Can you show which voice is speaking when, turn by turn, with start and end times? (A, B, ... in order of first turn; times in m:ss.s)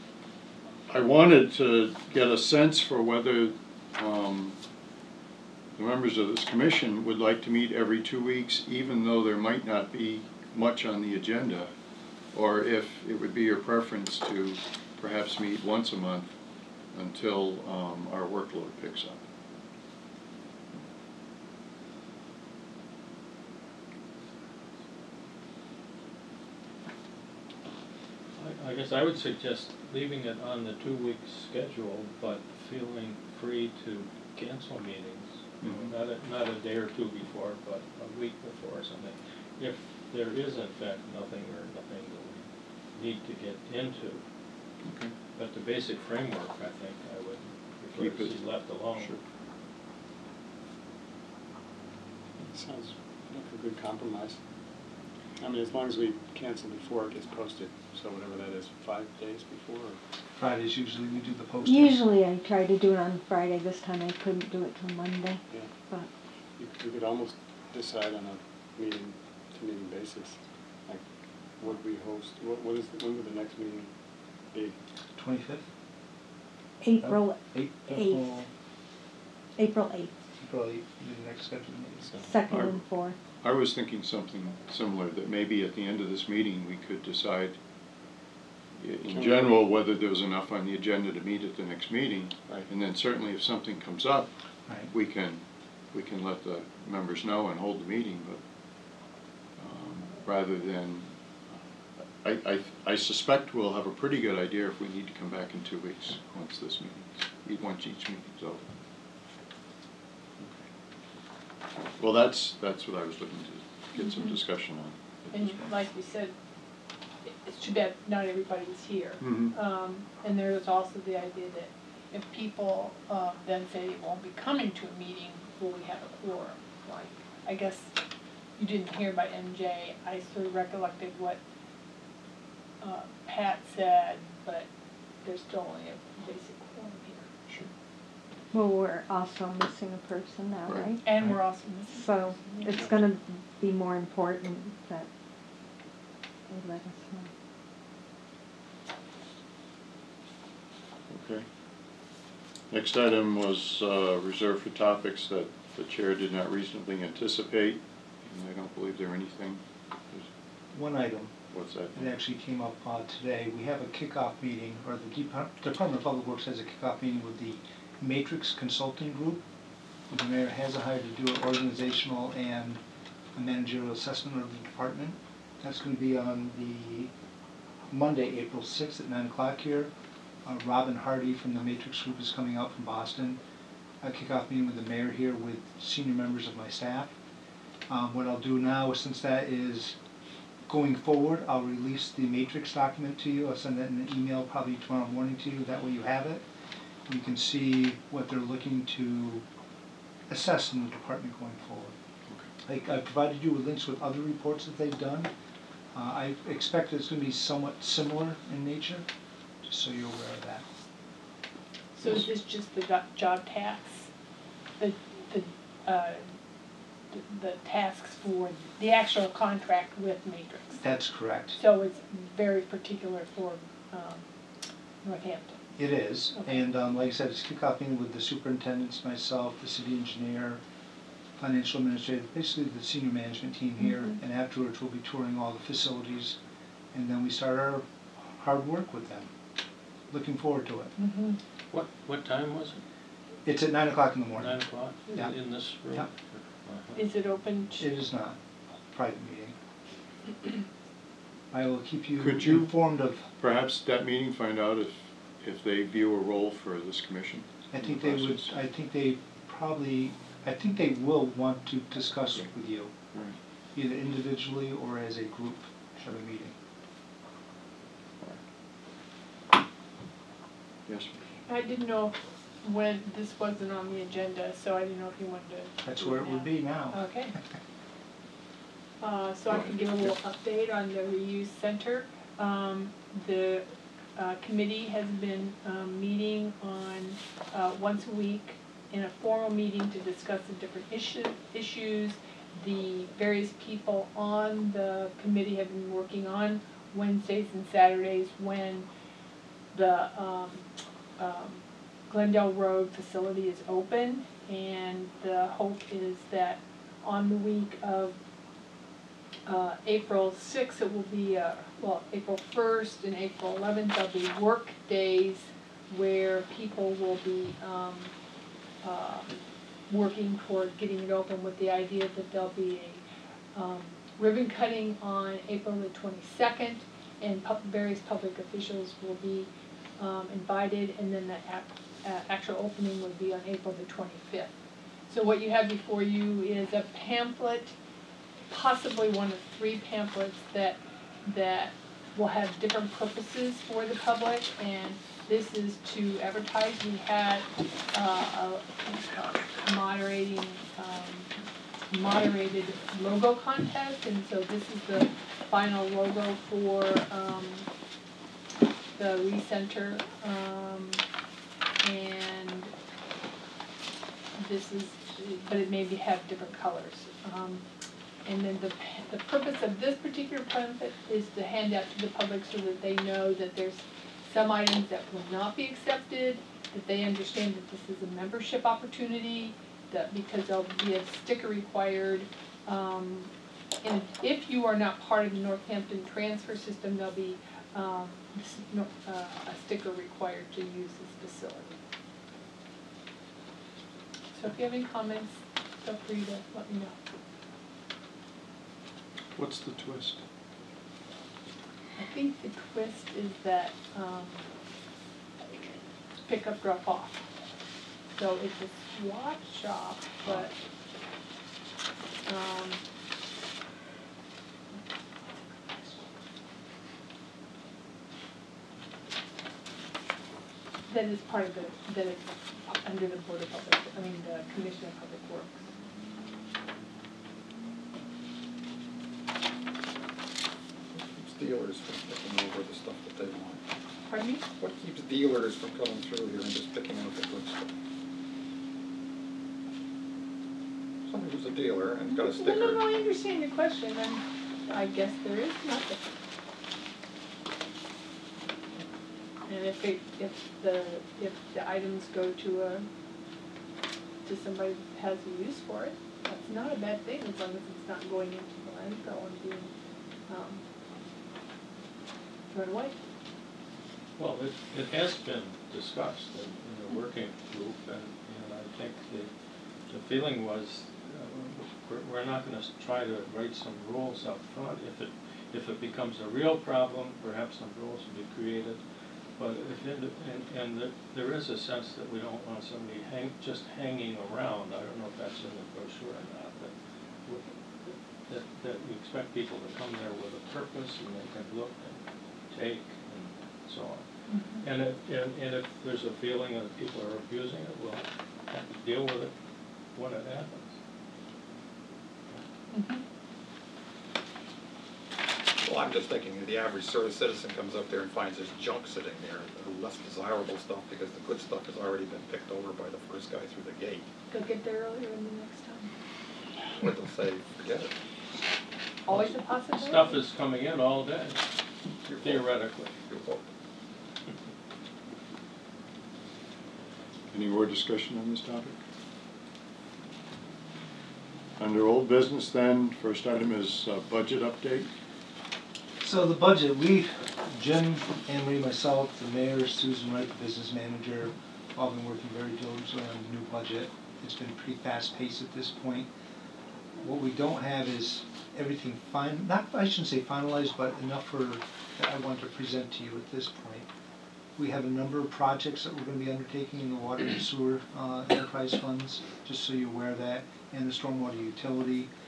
0:00.9-0:04.6 A
0:05.8-0:11.7 A
0:12.3-0:16.3 A
0:16.9-0:19.2 A
0:28.4-0:44.2 B
0:35.6-0:35.9 A
0:44.8-0:45.1 A
0:45.4-0:49.1 B
0:48.0-0:49.2 A
0:52.5-0:54.4 C
0:55.4-1:00.0 C
1:00.4-1:02.0 D
1:01.6-1:06.1 E
1:06.6-1:11.0 C
1:11.6-1:13.9 C
1:14.5-1:14.8 C
1:15.2-1:15.7 D
1:16.8-1:18.3 E
1:17.0-1:18.5 D
1:19.6-1:20.2 E
1:20.4-1:22.2 D
1:22.2-1:23.2 E
1:22.5-1:22.8 A
1:23.4-1:27.6 A
1:28.8-1:34.3 A
1:29.1-1:29.7 C
1:34.9-1:38.4 A
1:39.6-1:41.1 A
1:42.2-1:48.7 A
1:52.0-1:55.7 A
1:54.0-1:54.3 F
1:55.3-1:56.3 F
1:57.2-2:08.0 F
1:59.2-1:59.6 A
2:08.6-2:11.4 F
2:12.8-2:14.7 F
2:15.2-2:17.3 F
2:18.5-2:21.0 E
2:20.7-2:20.9 A
2:21.0-2:23.0 F
2:21.9-2:25.1 E
2:26.5-2:27.3 E
2:31.1-2:31.4 A
2:32.7-2:40.3 A
2:40.7-2:41.4 D
2:41.5-2:42.1 A
2:41.9-2:49.4 D
2:50.1-2:52.8 D
2:53.4-2:57.1 D
2:57.9-2:59.9 D
3:00.4-3:03.4 D
3:04.0-3:07.1 D
3:07.9-3:10.0 D
3:10.7-3:16.4 D
3:17.1-3:19.4 D
3:20.3-3:21.9 D
3:22.7-3:25.3 D
3:25.9-3:29.0 D
3:29.6-3:30.7 D
3:32.0-3:34.1 F
3:34.8-3:36.3 F
3:37.1-3:40.8 F
3:40.8-3:41.6 D
3:41.6-3:44.3 F
3:45.0-3:45.7 F
3:45.8-3:50.6 D
3:46.3-3:46.6 F
3:51.4-3:56.4 D
3:56.9-3:59.3 D
4:00.1-4:00.9 D
4:01.0-4:01.4 F
4:01.7-4:02.8 B
4:03.4-4:04.6 D
4:04.4-4:07.0 B
4:07.0-4:07.9 F
4:07.8-4:08.4 D
4:08.9-4:09.6 D
4:11.5-4:13.3 D
4:12.2-4:12.7 A
4:13.4-4:18.5 A
4:17.7-4:22.9 D
4:23.8-4:26.6 D
4:30.9-4:31.2 A
4:31.5-4:37.4 F
4:35.8-4:37.0 D
4:39.0-4:58.9 F
4:39.5-4:40.1 A
4:59.7-5:08.2 F
5:09.5-5:18.1 F
5:18.8-5:19.4 F
5:19.9-5:23.0 F
5:23.6-5:34.5 F
5:35.1-5:37.8 F
5:38.5-5:51.3 F
5:51.9-5:57.7 F
5:59.0-6:01.0 F
6:01.8-6:02.7 F
6:04.4-6:07.6 F
6:08.3-6:23.3 F
6:23.8-6:31.8 F
6:34.3-6:37.0 F
6:39.4-6:40.2 A
6:42.0-6:44.5 F
6:46.2-6:47.2 F
6:48.2-6:50.5 F
6:52.2-6:52.8 F
6:55.6-6:56.0 F
7:00.9-7:05.6 F
7:10.9-7:13.6 G
7:14.1-7:14.4 F
7:14.6-7:17.7 G
7:21.1-7:22.8 G
7:22.1-7:26.1 F
7:29.5-7:32.9 F
7:34.2-7:39.7 F
7:40.3-7:40.6 F
7:42.5-7:43.0 F
7:44.2-7:49.3 B
7:49.9-7:58.8 B
7:59.4-8:06.7 B
8:07.2-8:14.0 B
8:14.3-8:14.6 F
8:14.6-8:19.3 B
8:20.0-8:20.8 B
8:22.7-8:23.0 F
8:25.6-8:34.1 G
8:34.3-8:35.9 F
8:36.8-8:37.9 G
8:39.1-8:40.2 F
8:39.1-8:41.4 B
8:42.0-8:43.4 G
8:42.2-8:43.0 B
8:47.3-8:48.8 A
8:51.6-8:54.9 A
8:56.0-9:06.1 D
9:07.0-9:13.9 D
9:14.6-9:22.1 D